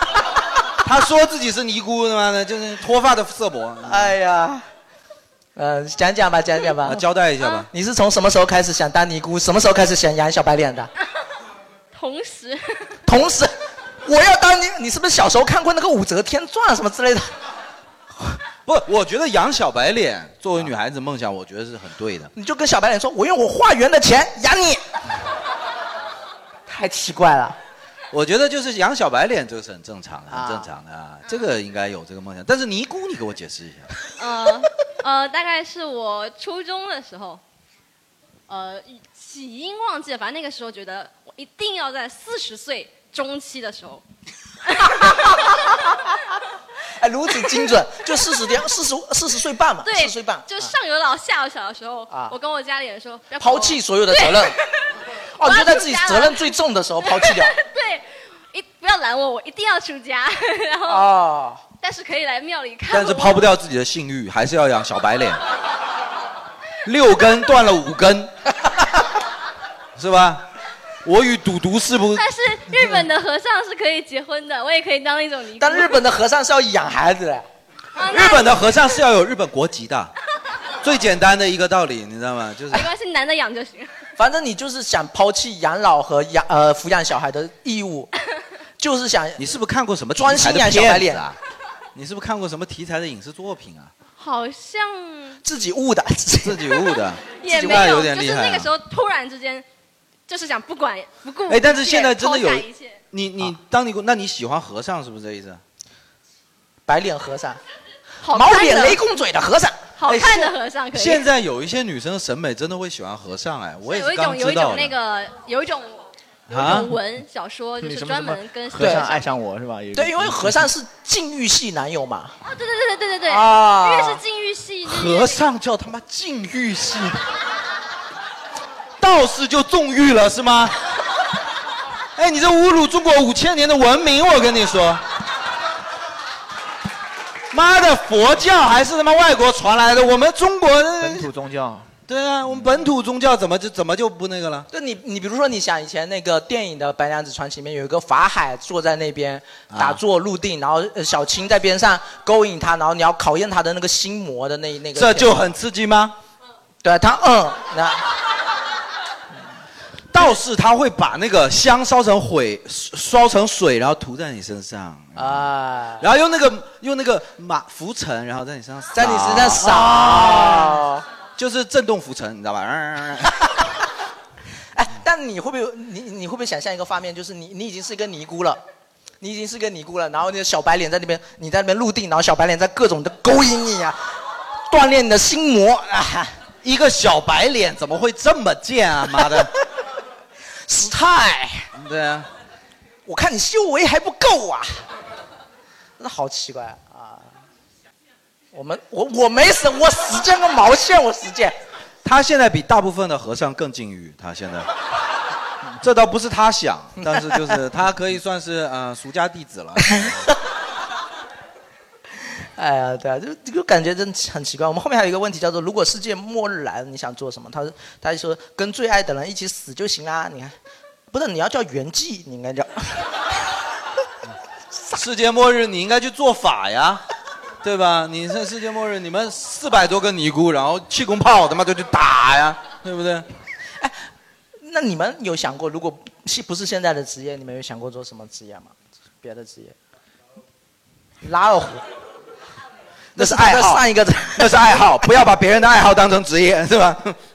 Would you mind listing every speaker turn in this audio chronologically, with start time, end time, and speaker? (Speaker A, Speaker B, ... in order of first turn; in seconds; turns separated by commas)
Speaker A: 0.8-4.1, Speaker B: 3.8-4.6, Speaker B: 5.5-7.0, Speaker A: 6.8-7.7, Speaker B: 7.7-10.9, Speaker C: 11.9-12.9, Speaker B: 13.1-13.5, Speaker B: 14.0-17.3, Speaker A: 18.6-22.3, Speaker B: 22.3-24.8, Speaker B: 26.7-27.6, Speaker A: 28.1-33.9, Speaker B: 30.3-30.7, Speaker C: 34.2-37.4, Speaker C: 38.5-44.0, Speaker C: 44.7-45.4, Speaker B: 44.9-45.5, Speaker B: 47.0-50.7, Speaker C: 49.8-56.5, Speaker B: 52.1-52.4, Speaker B: 53.4-54.5, Speaker B: 55.3-57.5, Speaker C: 57.0-61.1, Speaker B: 60.9-61.6, Speaker C: 61.8-63.5, Speaker A: 62.9-65.4, Speaker A: 66.8-68.3, Speaker A: 70.0-70.5, Speaker A: 71.0-73.0, Speaker C: 72.1-76.0, Speaker B: 75.6-77.5, Speaker C: 78.0-79.0, Speaker A: 78.0-80.1, Speaker A: 80.8-82.9, Speaker C: 82.7-84.0, Speaker B: 84.2-88.1, Speaker B: 88.8-89.5, Speaker A: 89.4-91.4, Speaker B: 90.1-91.2, Speaker A: 91.9-93.9, Speaker C: 94.2-95.4, Speaker B: 95.4-96.8, Speaker A: 96.4-98.7, Speaker C: 97.4-99.6, Speaker B: 97.4-98.0, Speaker C: 100.3-103.0, Speaker A: 101.5-105.6, Speaker B: 106.9-107.6, Speaker C: 108.2-109.0, Speaker B: 108.2-110.5, Speaker C: 110.0-111.3, Speaker A: 110.9-114.9, Speaker C: 113.8-119.4, Speaker A: 116.5-116.9, Speaker D: 117.8-120.7, Speaker B: 118.8-119.1, Speaker B: 119.9-122.3, Speaker C: 122.4-125.4, Speaker B: 123.2-124.2, Speaker A: 124.8-127.2, Speaker A: 129.0-130.8, Speaker A: 132.2-135.0, Speaker A: 137.5-141.3, Speaker D: 141.0-141.9, Speaker A: 142.1-144.7, Speaker B: 144.7-155.5, Speaker A: 149.7-150.0, Speaker A: 154.9-156.2, Speaker B: 156.8-158.0, Speaker A: 160.1-165.5, Speaker B: 165.2-166.1, Speaker A: 166.0-170.8, Speaker B: 168.9-171.0, Speaker A: 171.4-173.3, Speaker B: 174.7-178.6, Speaker B: 179.2-184.1, Speaker B: 184.7-186.3, Speaker A: 186.6-189.5, Speaker B: 189.2-189.4, Speaker B: 190.7-191.7, Speaker A: 191.7-192.3, Speaker B: 193.1-194.8, Speaker B: 196.0-197.3, Speaker B: 198.5-201.5, Speaker A: 202.0-204.7, Speaker A: 205.8-210.3, Speaker B: 207.1-207.4, Speaker B: 212.6-220.6, Speaker B: 221.1-223.0, Speaker A: 224.9-227.0, Speaker A: 227.6-233.3, Speaker B: 234.6-239.7, Speaker B: 241.2-241.8, Speaker A: 243.1-247.2, Speaker B: 243.2-244.8